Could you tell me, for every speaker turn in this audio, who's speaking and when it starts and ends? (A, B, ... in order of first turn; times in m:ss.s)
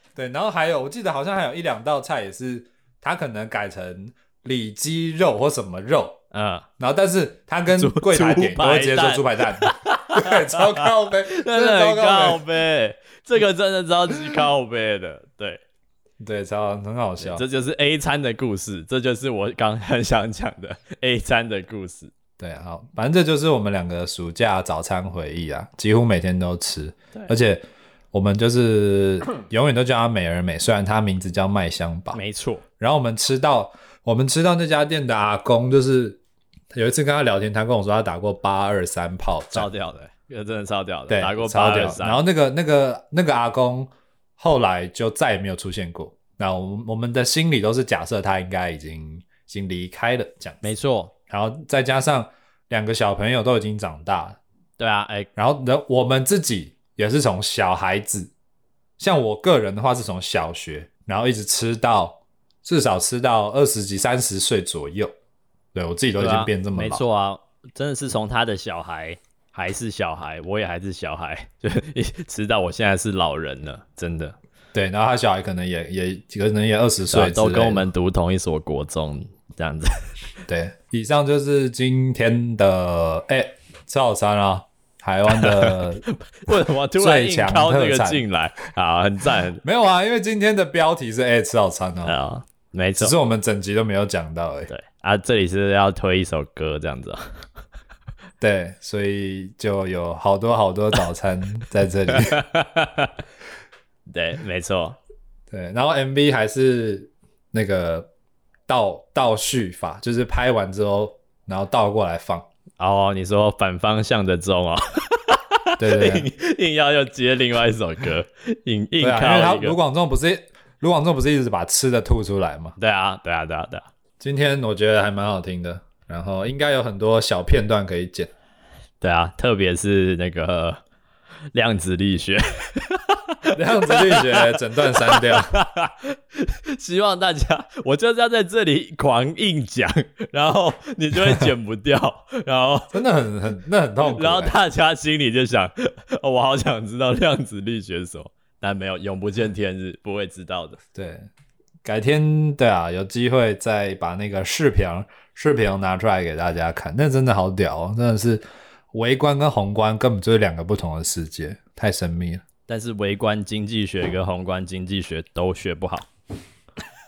0:00.2-0:06.2 A
0:06.3-0:06.6 B
0:06.8-0:12.4 A
0:07.7-0:15.6 B
0:16.2-0:17.4 A
0:17.2-0:22.1 B
0:22.4-0:32.2 A
0:32.1-0:32.6 B
0:32.8-0:36.2 A
0:36.7-0:39.7 A
0:39.5-0:42.2 B
0:41.1-0:50.6 A
0:50.6-0:51.1 B
0:51.3-0:54.4 A
0:54.8-0:55.3 B
0:55.4-0:58.3 A
0:59.0-1:05.1 A
1:05.7-1:07.0 A
1:06.2-1:14.4 B
1:14.7-1:17.8 A
1:17.1-1:19.9 B
1:20.5-1:26.0 A
1:25.3-1:29.6 B
1:26.9-1:28.2 A
1:29.6-1:32.2 A
1:32.0-1:33.1 B
1:33.0-1:34.7 A
1:34.7-1:37.4 B
1:38.4-1:42.4 A
1:42.1-1:43.1 B
1:44.1-1:45.0 B
1:45.5-1:48.1 A
1:48.7-1:52.4 A
1:52.8-1:59.8 B
1:55.8-1:56.3 A
1:59.0-2:02.7 A
2:02.8-2:03.9 B
2:04.2-2:08.3 A
2:09.0-2:10.8 B
2:11.5-2:22.9 B
2:13.5-2:15.5 A
2:22.9-2:24.6 A
2:24.0-2:30.8 B
2:30.9-2:31.3 A
2:31.8-2:42.4 A
2:42.7-2:46.1 B